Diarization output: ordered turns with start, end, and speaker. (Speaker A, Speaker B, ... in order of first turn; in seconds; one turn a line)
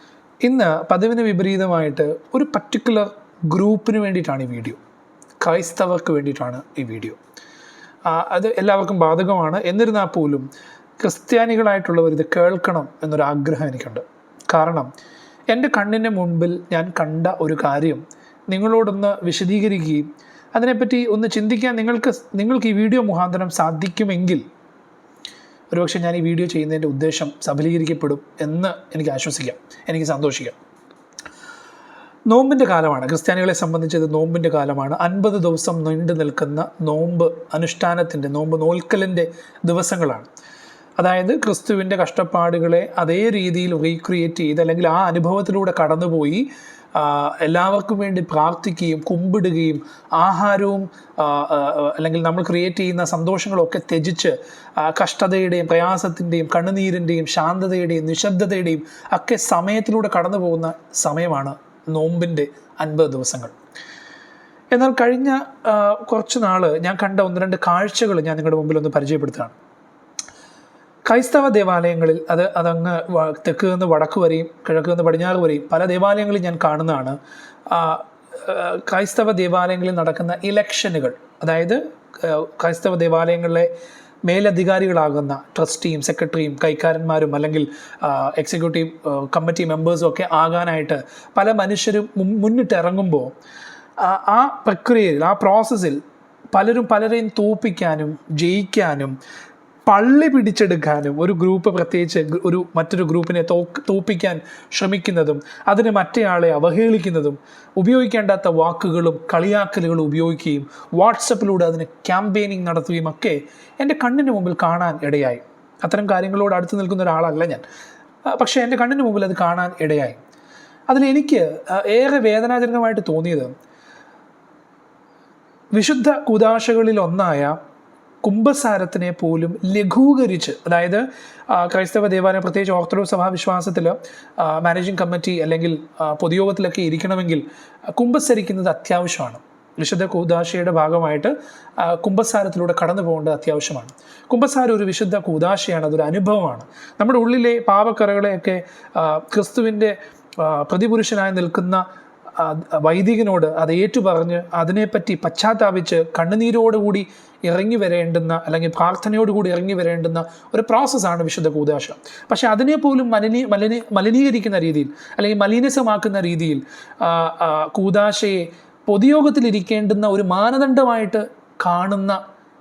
Speaker A: 0.4-4.8
Speaker A: 5.4-7.2
Speaker A: 8.1-10.5
Speaker A: 11.0-14.9
Speaker A: 15.5-24.4
Speaker A: 25.7-30.6
Speaker A: 32.3-40.3
Speaker A: 41.0-63.5
Speaker A: 64.7-69.5
Speaker A: 71.1-77.2
Speaker A: 77.7-83.7
Speaker A: 84.3-93.3
Speaker A: 94.0-96.0
Speaker A: 96.5-99.1
Speaker A: 99.9-117.6
Speaker A: 118.2-120.2
Speaker A: 120.9-123.5
Speaker A: 125.7-127.6
Speaker A: 128.2-137.4
Speaker A: 137.9-151.8
Speaker A: 152.3-172.2